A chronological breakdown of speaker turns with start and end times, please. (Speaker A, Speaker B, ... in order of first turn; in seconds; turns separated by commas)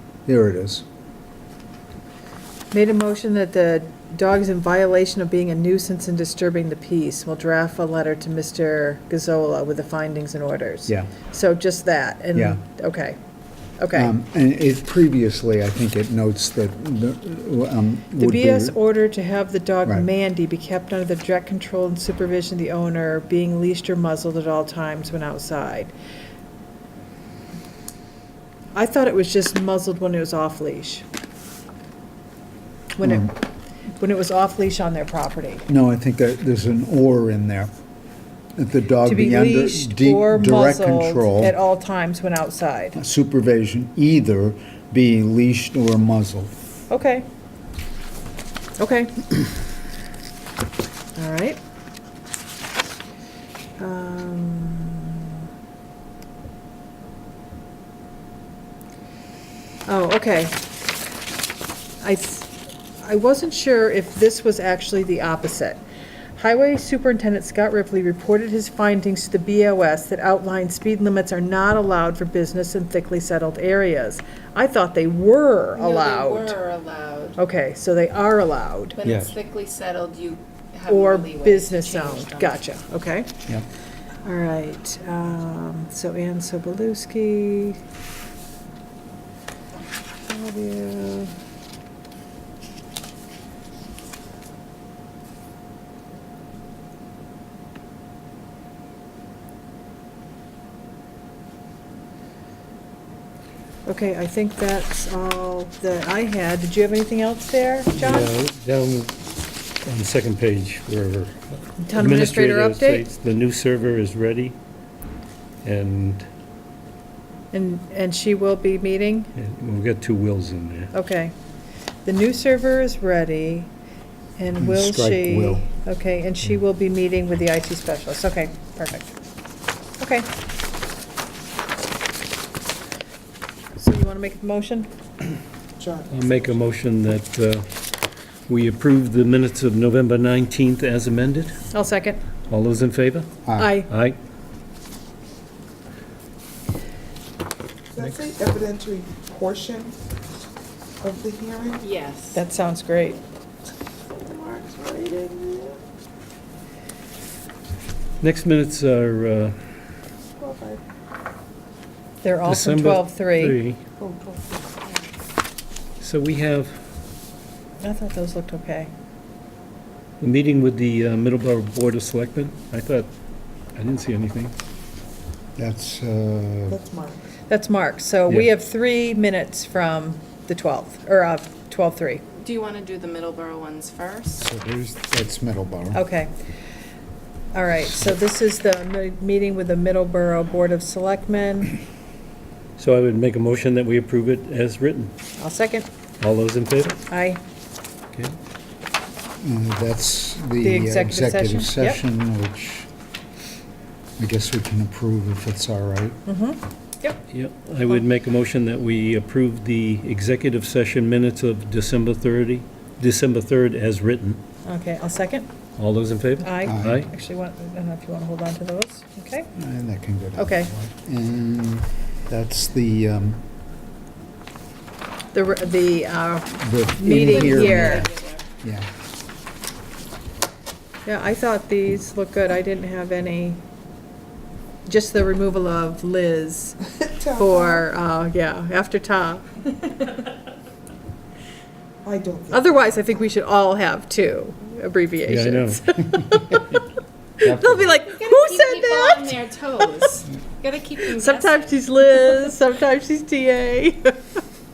Speaker A: 0.2-0.8, Speaker B: 2.7-13.2, Speaker A: 12.3-12.6, Speaker B: 13.8-14.1, Speaker A: 13.9-18.8, Speaker B: 18.2-25.9, Speaker B: 28.7-31.0, Speaker B: 33.0-33.4, Speaker A: 33.0-33.3, Speaker B: 34.0-35.7, Speaker A: 35.7-37.7, Speaker A: 38.6-41.5, Speaker B: 39.0-43.0, Speaker A: 43.0-46.5, Speaker B: 46.9-47.2, Speaker B: 48.8-49.3, Speaker B: 51.1-51.6, Speaker B: 53.8-55.4, Speaker B: 59.9-60.6, Speaker B: 62.0-65.8, Speaker B: 66.3-76.5, Speaker C: 75.8-77.4, Speaker B: 77.4-79.0, Speaker C: 79.0-82.6, Speaker D: 79.0-79.3, Speaker B: 80.9-83.3, Speaker B: 84.2-87.8, Speaker B: 90.2-91.3, Speaker B: 103.8-108.3, Speaker D: 107.9-109.2, Speaker D: 109.8-114.5, Speaker B: 111.8-113.1, Speaker D: 115.6-116.3, Speaker B: 117.5-119.3, Speaker D: 119.3-120.9, Speaker B: 120.9-121.3, Speaker B: 122.0-123.7, Speaker B: 124.4-129.1, Speaker A: 124.6-125.7, Speaker B: 130.0-130.3, Speaker B: 133.8-134.9, Speaker E: 135.8-136.5, Speaker D: 136.1-137.7, Speaker D: 138.5-141.7, Speaker B: 141.7-142.2, Speaker D: 142.5-144.2, Speaker B: 143.6-143.9, Speaker E: 147.9-150.0, Speaker D: 148.0-148.3, Speaker E: 151.0-151.9, Speaker C: 151.8-152.4, Speaker B: 152.3-153.2, Speaker E: 154.1-155.8, Speaker D: 158.2-159.7, Speaker E: 160.4-160.8, Speaker B: 162.2-163.6, Speaker D: 162.4-163.8, Speaker E: 164.0-164.8, Speaker D: 166.0-166.8, Speaker B: 167.8-168.9, Speaker D: 170.2-173.1, Speaker D: 173.7-174.5, Speaker A: 175.6-176.8, Speaker E: 176.7-177.3, Speaker B: 177.5-182.2, Speaker C: 182.3-184.4, Speaker A: 184.4-186.0, Speaker B: 185.9-186.3, Speaker B: 187.5-191.8, Speaker D: 192.8-195.1, Speaker B: 195.4-195.9, Speaker D: 196.2-197.0, Speaker B: 197.1-197.4, Speaker A: 199.4-202.9, Speaker B: 200.6-202.0, Speaker A: 204.2-206.2, Speaker B: 206.2-207.2, Speaker D: 207.3-214.4, Speaker B: 214.6-215.5, Speaker D: 215.8-217.1, Speaker B: 216.4-219.5, Speaker A: 216.7-217.0, Speaker A: 219.6-223.4, Speaker B: 220.3-220.7, Speaker B: 225.3-228.1, Speaker A: 226.6-228.1, Speaker C: 227.1-228.4, Speaker A: 228.6-228.9, Speaker B: 231.1-233.6, Speaker B: 234.8-236.8, Speaker E: 237.0-237.8, Speaker B: 237.3-239.6, Speaker E: 242.0-242.9, Speaker B: 242.5-246.8, Speaker D: 245.3-245.8, Speaker B: 247.4-249.4, Speaker C: 248.1-252.5, Speaker B: 251.1-254.2